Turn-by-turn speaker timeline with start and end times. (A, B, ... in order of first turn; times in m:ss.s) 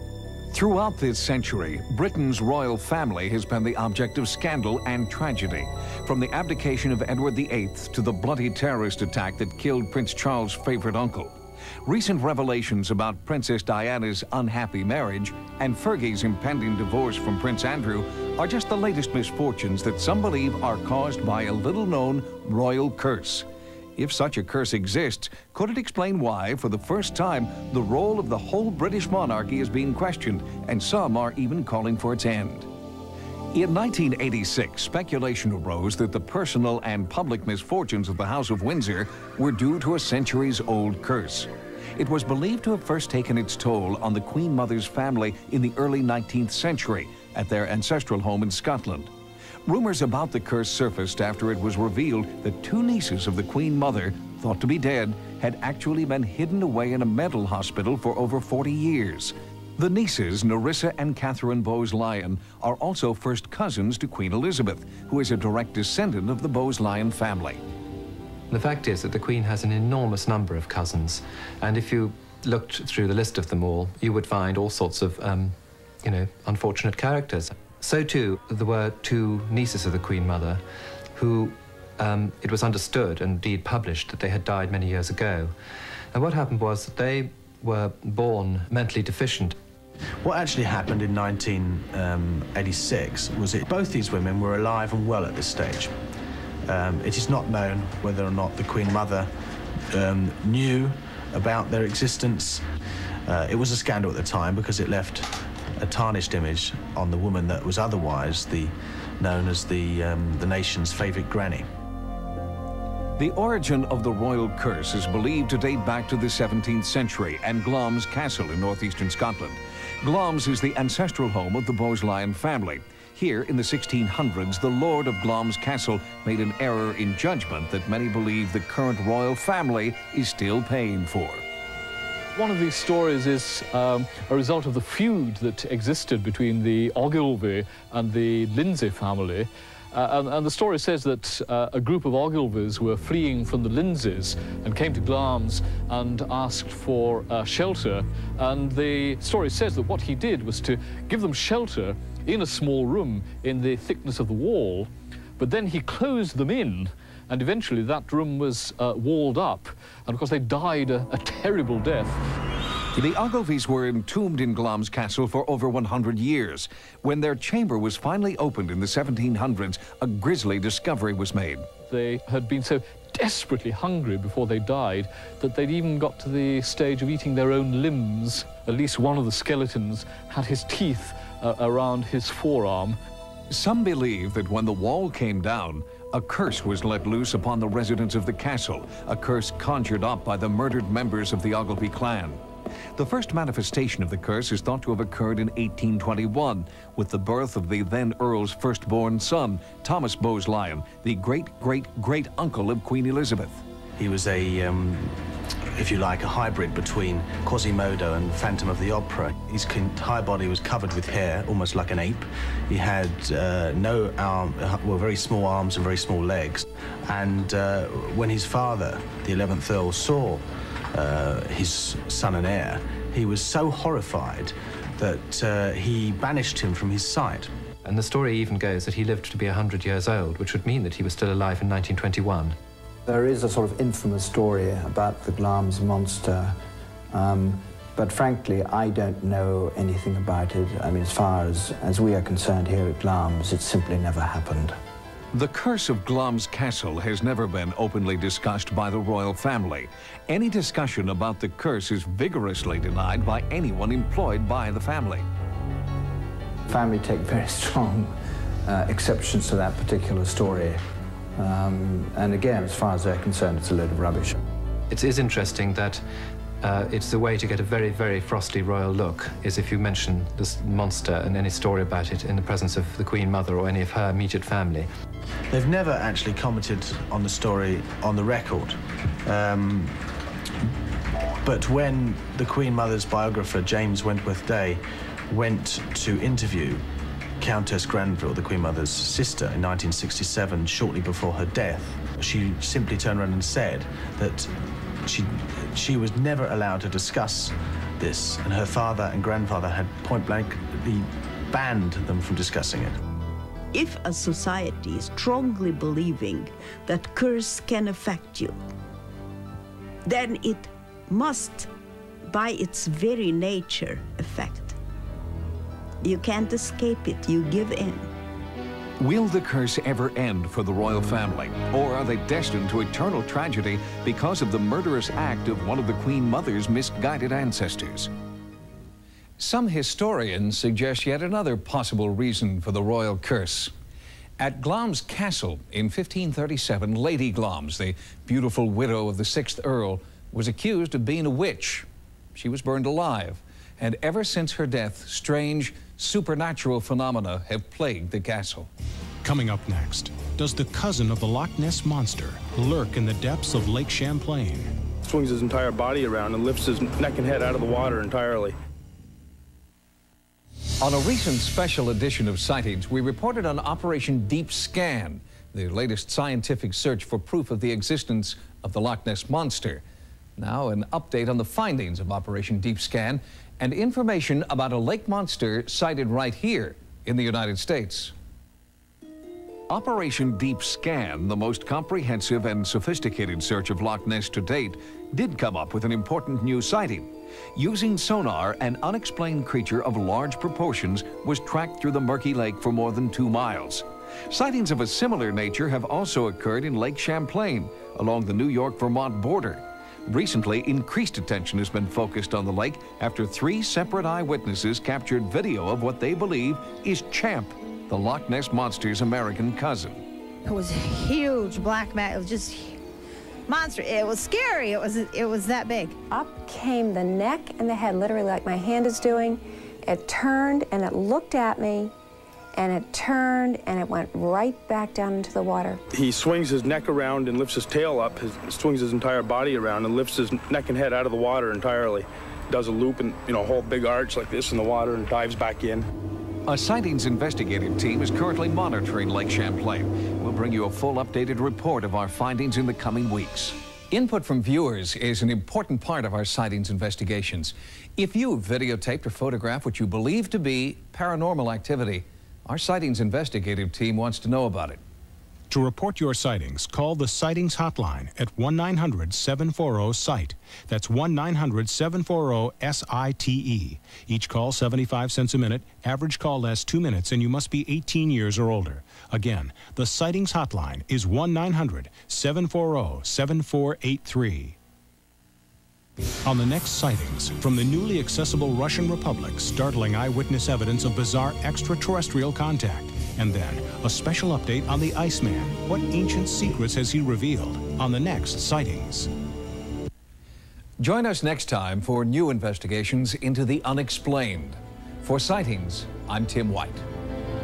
0:00.5-0:32.7 A
0:33.5-0:49.1 A
0:49.6-1:07.6 A
1:08.5-1:20.6 B
1:21.1-1:25.5 B
1:26.1-1:29.5 B
1:30.2-1:35.9 C
1:36.6-1:39.3 C
1:39.9-1:42.6 C
1:43.2-1:51.7 C
1:53.2-2:11.4 A
2:12.3-2:42.2 D
2:42.9-2:51.7 A
2:51.8-3:03.0 D
3:03.5-3:12.4 A
3:13.0-3:23.6 A
3:24.0-3:25.2 C
3:25.7-3:47.5 C
3:47.8-3:52.6 B
3:53.0-3:56.6 E
3:57.1-4:04.8 E
4:05.3-4:15.3 A
4:16.7-4:20.8 E
4:21.4-4:24.4 E
4:24.9-4:26.0 B
4:26.6-4:34.9 B
4:35.5-4:40.0 C
4:41.4-4:46.8 C
4:47.4-5:03.0 C
5:03.7-5:08.6 F
5:10.0-5:11.7 F
5:12.2-5:14.8 F
5:16.0-5:18.1 F
5:19.0-5:28.1 A
5:29.4-5:33.7 A
5:34.4-5:48.7 A
5:49.2-5:54.7 G
5:55.0-5:58.5 H
6:00.8-6:09.8 A
6:10.4-6:18.1 A
6:19.7-6:50.0 A
6:50.4-6:52.8 I
6:53.5-6:56.0 I
6:56.1-7:01.9 J
7:02.5-7:05.8 J
7:05.9-7:15.9 H
7:16.5-7:34.8 A
7:35.5-7:54.6 G
7:56.2-8:09.1 G
8:10.8-8:16.8 A